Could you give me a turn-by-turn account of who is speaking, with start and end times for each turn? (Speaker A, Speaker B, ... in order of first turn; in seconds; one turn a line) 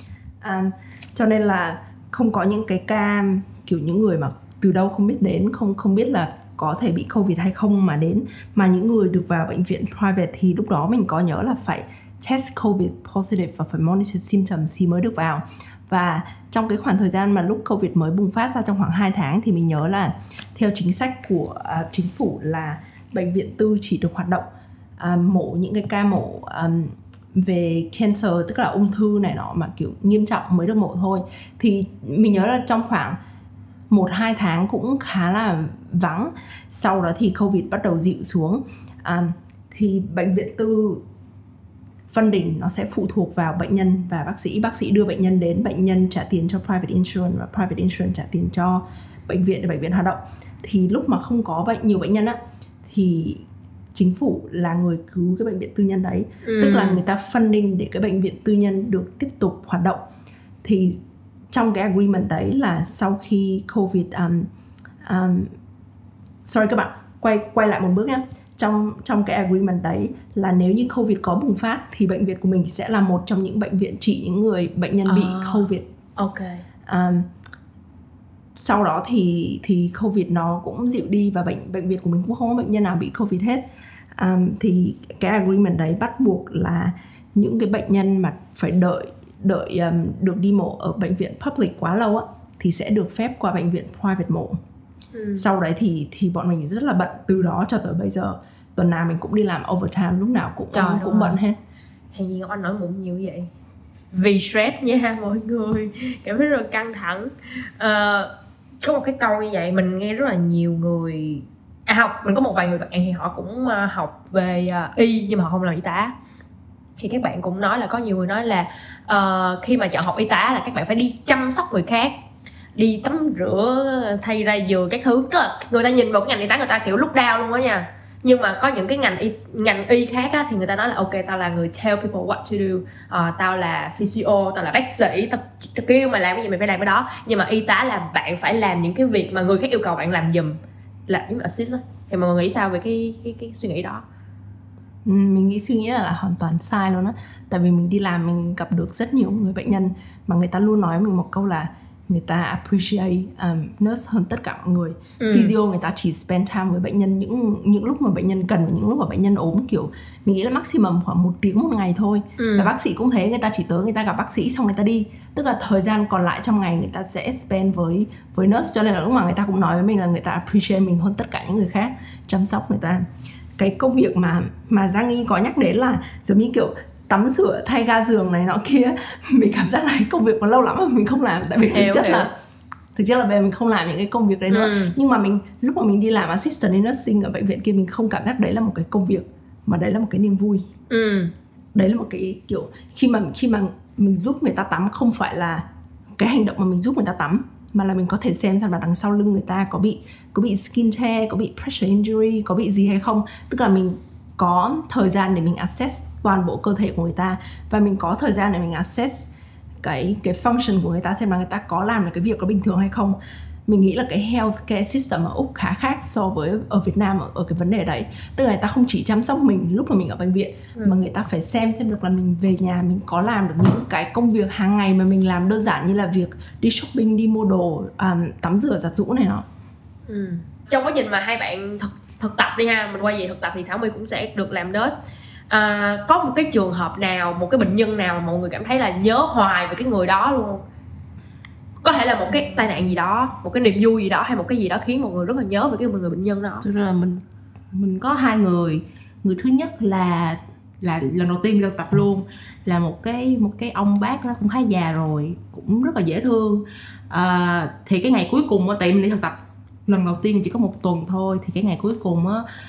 Speaker A: 0.4-24.5
Speaker A: 25.0-33.2
Speaker A: 33.9-41.0
Speaker A: 42.1-60.0
Speaker B: 56.4-57.0
Speaker A: 60.6-61.0
Speaker A: 61.5-64.5
Speaker A: 65.0-65.5
Speaker A: 66.4-75.9
Speaker B: 75.0-76.6
Speaker A: 76.8-77.3
Speaker A: 78.5-94.6
Speaker B: 95.1-95.5
Speaker A: 95.3-101.6
Speaker B: 100.7-101.4
Speaker B: 102.1-103.5
Speaker B: 104.1-116.1
Speaker B: 117.0-122.2
Speaker B: 122.8-144.0
Speaker A: 145.0-173.1
Speaker B: 155.2-155.5
Speaker B: 162.4-162.7
Speaker A: 173.6-182.3
Speaker B: 181.6-182.3
Speaker A: 182.9-190.7
Speaker B: 184.5-184.9
Speaker B: 190.9-191.3
Speaker A: 191.7-195.6
Speaker A: 196.2-209.3
Speaker A: 209.8-229.4
Speaker B: 220.8-221.0
Speaker B: 230.1-234.9
Speaker B: 235.5-240.6
Speaker B: 241.8-246.6
Speaker C: 246.6-262.4